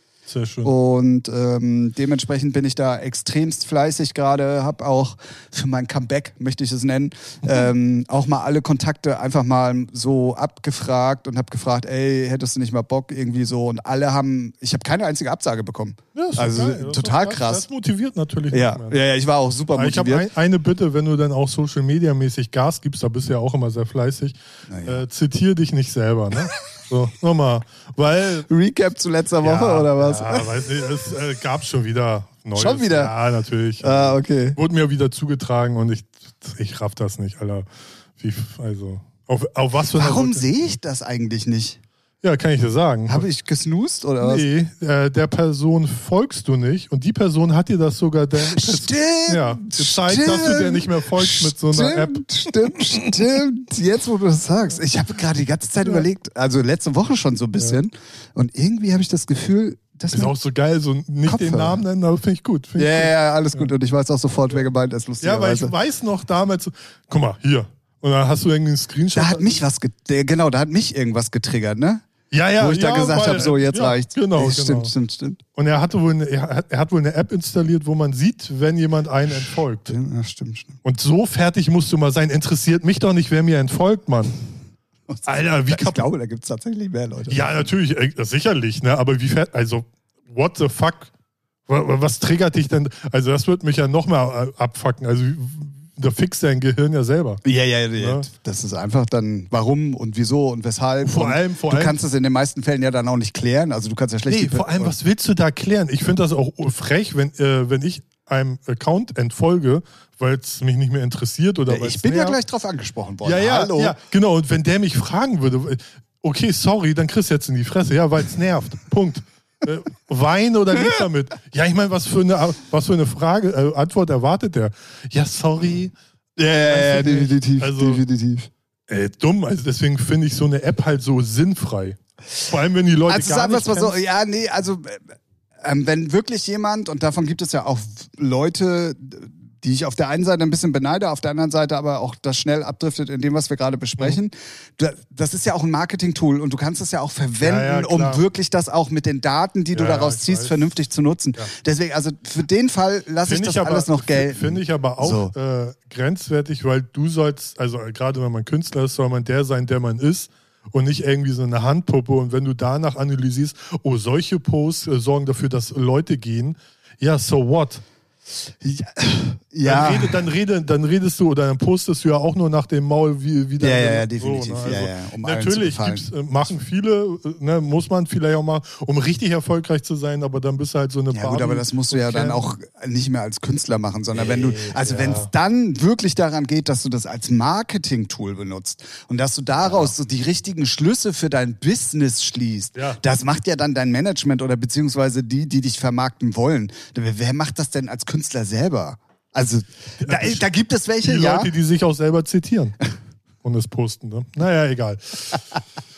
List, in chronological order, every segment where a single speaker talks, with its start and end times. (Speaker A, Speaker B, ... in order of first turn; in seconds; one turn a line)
Speaker A: 0.3-0.7
Speaker B: 0.6-17.6
Speaker A: 16.1-19.0
Speaker B: 18.5-20.2
Speaker A: 19.7-28.5
Speaker B: 24.7-25.0
Speaker B: 28.5-30.5
Speaker A: 29.4-37.7
Speaker B: 32.5-33.1
Speaker B: 33.8-34.6
Speaker A: 38.2-40.4
Speaker B: 39.9-41.8
Speaker A: 42.2-43.2
Speaker B: 43.1-44.5
Speaker A: 44.2-53.2
Speaker B: 48.4-60.3
Speaker A: 55.8-56.1
Speaker A: 60.1-63.7
Speaker B: 61.2-61.8
Speaker B: 62.8-65.7
Speaker A: 65.2-69.6
Speaker B: 69.1-72.0
Speaker A: 72.3-74.9
Speaker B: 72.6-75.4
Speaker A: 75.5-79.9
Speaker B: 79.4-80.8
Speaker A: 80.8-84.4
Speaker B: 85.1-87.7
Speaker A: 85.2-86.0
Speaker A: 87.3-91.1
Speaker A: 91.7-97.4
Speaker B: 97.4-104.9
Speaker A: 98.0-98.3
Speaker A: 101.0-102.0
Speaker A: 104.3-112.4
Speaker B: 111.7-114.0
Speaker A: 113.2-125.9
Speaker B: 126.4-128.5
Speaker A: 126.6-128.0
Speaker A: 128.9-133.9
Speaker B: 133.1-155.3
Speaker A: 147.4-148.2
Speaker A: 149.7-150.7
Speaker A: 153.2-167.8
Speaker B: 168.6-170.2
Speaker A: 169.6-182.4
Speaker B: 173.6-176.1
Speaker B: 181.1-201.5
Speaker A: 184.1-185.3
Speaker A: 189.6-189.9
Speaker A: 192.7-193.0
Speaker A: 200.0-200.4
Speaker A: 201.0-202.8
Speaker A: 203.4-205.4